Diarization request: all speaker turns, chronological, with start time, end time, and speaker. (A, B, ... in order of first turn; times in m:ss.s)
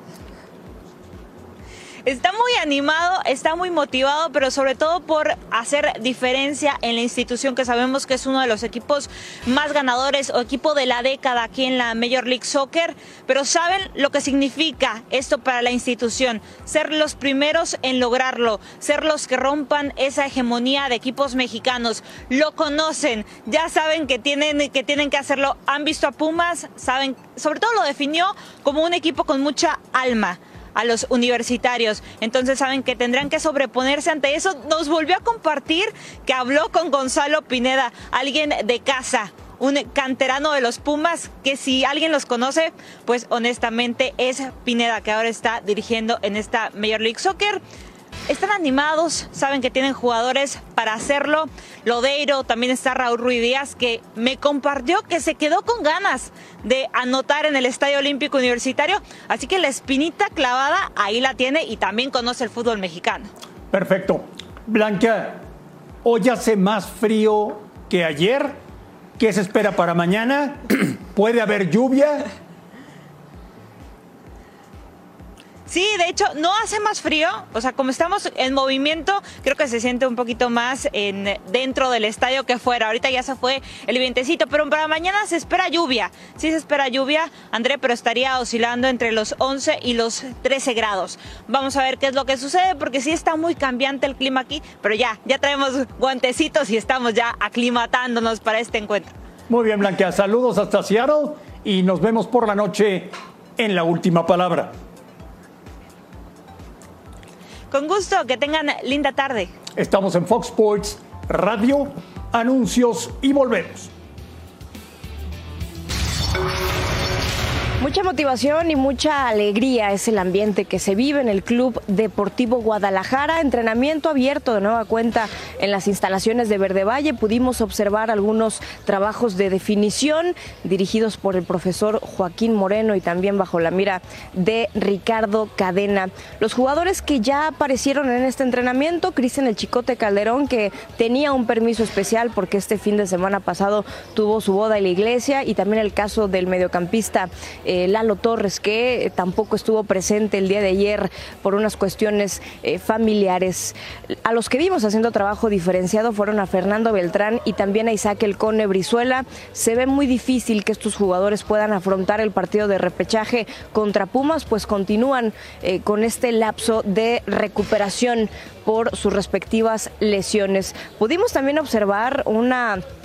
0:02.0-0:47.6 A
0:48.3-1:03.3 A
1:03.7-1:05.4 B
1:06.0-1:08.6 B
1:09.2-1:12.3 B
1:15.7-1:39.1 A
1:39.5-1:44.7 B
1:47.7-1:49.5 A
1:49.8-1:53.9 B
1:57.8-2:52.8 C